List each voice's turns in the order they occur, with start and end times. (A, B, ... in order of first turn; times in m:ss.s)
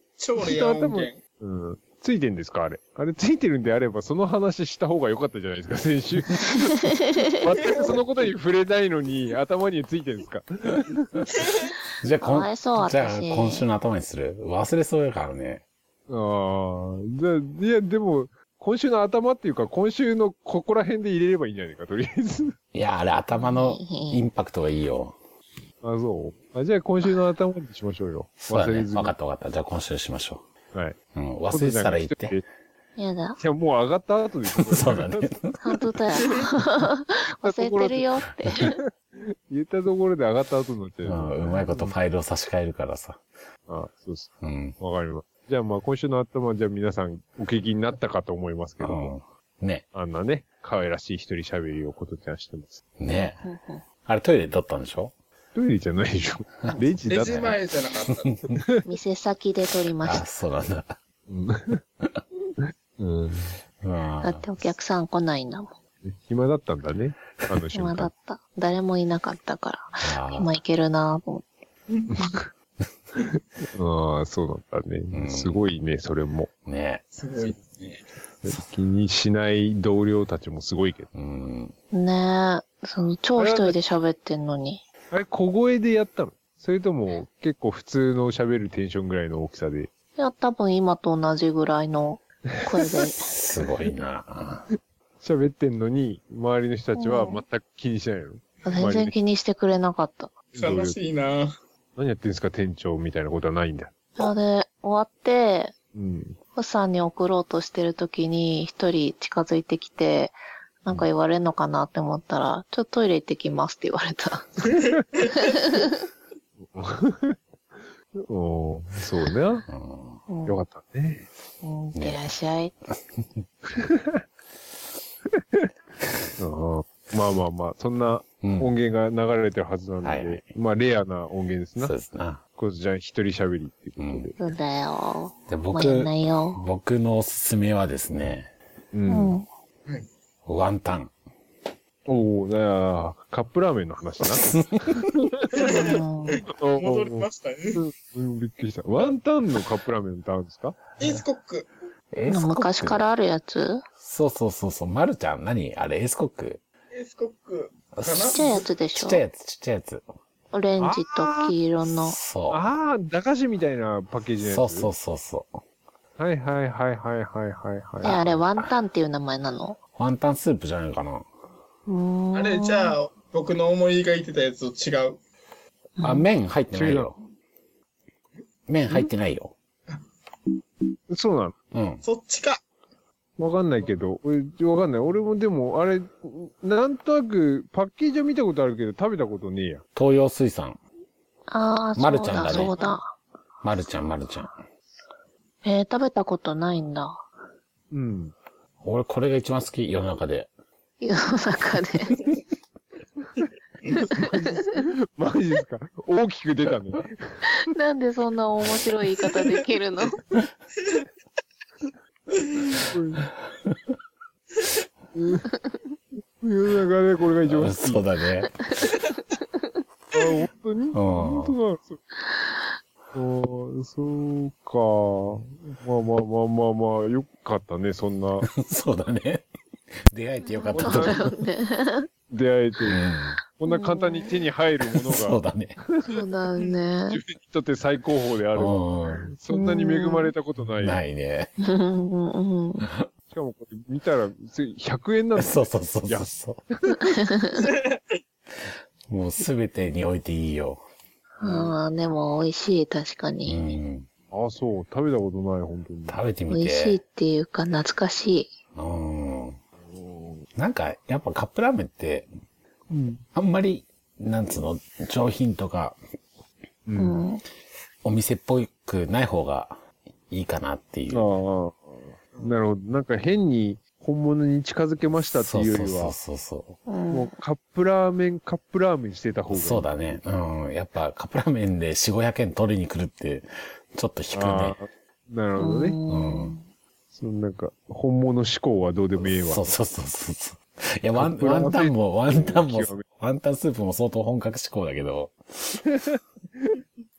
0:00.2-0:01.2 A
0:00.4-0:11.3 B
0:06.9-0:07.4 C
0:12.0-0:15.6 D
0:12.2-0:13.6 C
0:16.1-0:22.6 B
0:22.7-0:25.2 D
0:23.4-0:24.2 C
0:25.8-0:29.1 B
0:28.4-0:30.5 D
0:31.2-0:32.4 D
0:31.5-0:32.4 B
0:33.0-0:33.4 C
0:33.4-0:35.6 B
0:34.5-0:35.6 D
0:35.6-0:38.8 C
0:37.4-0:42.0 B
0:41.0-0:43.2 D
0:43.7-0:49.2 B
0:44.4-0:44.8 D
0:48.8-0:49.8 D
0:49.9-0:52.8 B
0:53.0-0:53.4 D
0:53.4-0:53.8 C
0:54.0-0:55.1 D
0:55.6-0:57.5 B
0:56.7-0:58.6 D
0:57.1-0:58.3 A
0:58.5-0:58.8 B
0:58.8-1:00.3 C
1:00.0-1:01.0 D
1:01.3-1:01.8 B
1:02.6-1:03.6 B
1:03.8-1:04.5 D
1:04.2-1:05.7 C
1:06.0-1:08.1 B
1:07.7-1:11.5 C
1:10.0-1:10.5 D
1:12.1-1:12.5 B
1:13.3-1:16.5 B
1:15.1-1:15.6 D
1:16.7-1:17.0 D
1:17.2-1:18.0 A
1:18.4-1:21.1 B
1:21.1-1:21.7 D
1:21.9-1:24.8 C
1:23.4-1:23.8 B
1:25.1-1:29.9 B
1:30.2-1:33.3 C
1:32.6-1:33.6 B
1:33.2-1:34.7 D
1:34.7-1:39.2 B
1:37.0-1:37.4 C
1:38.6-1:40.3 C
1:40.5-1:41.0 B
1:40.6-1:41.6 A
1:42.0-1:43.9 B
1:44.2-1:45.7 C
1:45.9-1:46.4 B
1:46.6-1:54.5 C
1:55.3-1:56.0 C
1:56.6-1:57.4 B
1:58.2-1:59.7 B
1:59.7-2:00.2 D
2:00.3-2:00.6 C
2:00.5-2:01.3 B
2:01.6-2:02.7 C
2:02.0-2:02.2 D
2:03.2-2:03.4 D
2:03.7-2:04.2 B
2:05.4-2:05.7 B
2:06.4-2:11.9 B
2:08.4-2:08.7 D
2:10.0-2:10.5 D
2:11.8-2:12.4 D
2:12.6-2:14.4 B
2:14.0-2:14.3 D
2:14.4-2:16.6 C
2:15.5-2:18.5 D
2:18.9-2:19.4 B
2:19.1-2:19.5 C
2:20.5-2:21.1 D
2:22.1-2:25.9 B
2:24.2-2:25.1 D
2:25.5-2:27.8 A
2:25.6-2:26.4 C
2:26.6-2:30.8 B
2:31.0-2:31.7 A
2:32.1-2:33.0 D
2:32.3-2:33.8 C
2:34.0-2:36.6 D
2:36.9-2:38.7 A
2:38.0-2:38.4 D
2:38.3-2:39.2 C
2:39.0-2:40.0 D
2:40.5-2:42.2 C
2:40.8-2:41.6 B
2:41.9-2:42.7 D
2:42.5-2:44.9 B
2:44.4-2:45.6 D
2:46.2-2:48.4 B
2:48.0-2:49.8 C
2:50.0-2:51.3 D
2:51.9-2:53.0 C
2:52.3-2:55.2 A
2:56.0-2:56.3 C
2:56.0-2:57.2 D
2:56.7-2:57.1 B
2:58.7-2:59.6 D
3:01.1-3:01.6 B
3:01.7-3:02.0 D
3:02.0-3:02.6 A
3:03.4-3:09.8 B
3:10.0-3:10.8 D
3:11.5-3:13.1 C
3:12.0-3:12.8 D
3:12.4-3:12.9 B
3:13.6-3:14.6 D
3:15.6-3:17.2 C
3:17.9-3:18.3 B
3:18.8-3:20.5 D
3:21.0-3:22.2 C
3:24.0-3:27.5 B
3:24.1-3:24.7 C
3:27.4-3:30.2 C
3:32.8-3:33.3 B
3:35.2-3:35.5 B
3:36.4-3:38.1 B
3:37.5-3:38.8 D
3:40.1-3:42.0 B
3:40.9-3:41.6 D
3:43.1-3:48.5 B
3:48.5-3:49.5 D
3:50.1-3:51.3 D
3:50.4-3:52.1 C
3:50.8-3:51.3 B
3:52.3-3:53.0 B
3:52.9-3:53.4 D
3:53.6-3:55.4 B
3:53.7-3:54.4 C
3:55.0-3:55.8 D
3:55.9-3:56.1 B
3:56.0-3:57.2 C
3:57.1-4:01.0 B
3:58.5-3:59.2 D
3:59.5-4:00.3 C
4:00.8-4:01.5 D
4:01.6-4:02.9 C
4:02.8-4:03.1 D
4:03.3-4:07.1 B
4:05.4-4:06.6 D
4:07.1-4:07.6 C
4:07.5-4:08.2 A
4:08.6-4:10.8 D
4:11.4-4:13.7 C
4:11.4-4:11.8 B
4:13.4-4:14.1 D
4:14.3-4:16.2 B
4:16.1-4:17.0 D
4:16.5-4:18.5 C
4:18.8-4:19.6 D
4:19.8-4:20.5 B
4:20.6-4:22.3 D
4:22.9-4:23.2 B
4:23.3-4:26.0 D
4:26.9-4:27.2 B
4:27.0-4:27.4 C
4:28.0-4:31.3 D
4:31.1-4:36.2 B
4:35.4-4:36.8 D
4:36.9-4:37.3 C
4:37.1-4:40.2 B
4:39.5-4:44.8 D
4:44.4-4:46.0 B
4:45.6-4:46.6 C
4:46.1-4:46.6 D
4:47.1-4:49.8 B
4:49.2-4:55.8 D
4:51.2-4:53.0 B
4:55.8-4:56.8 B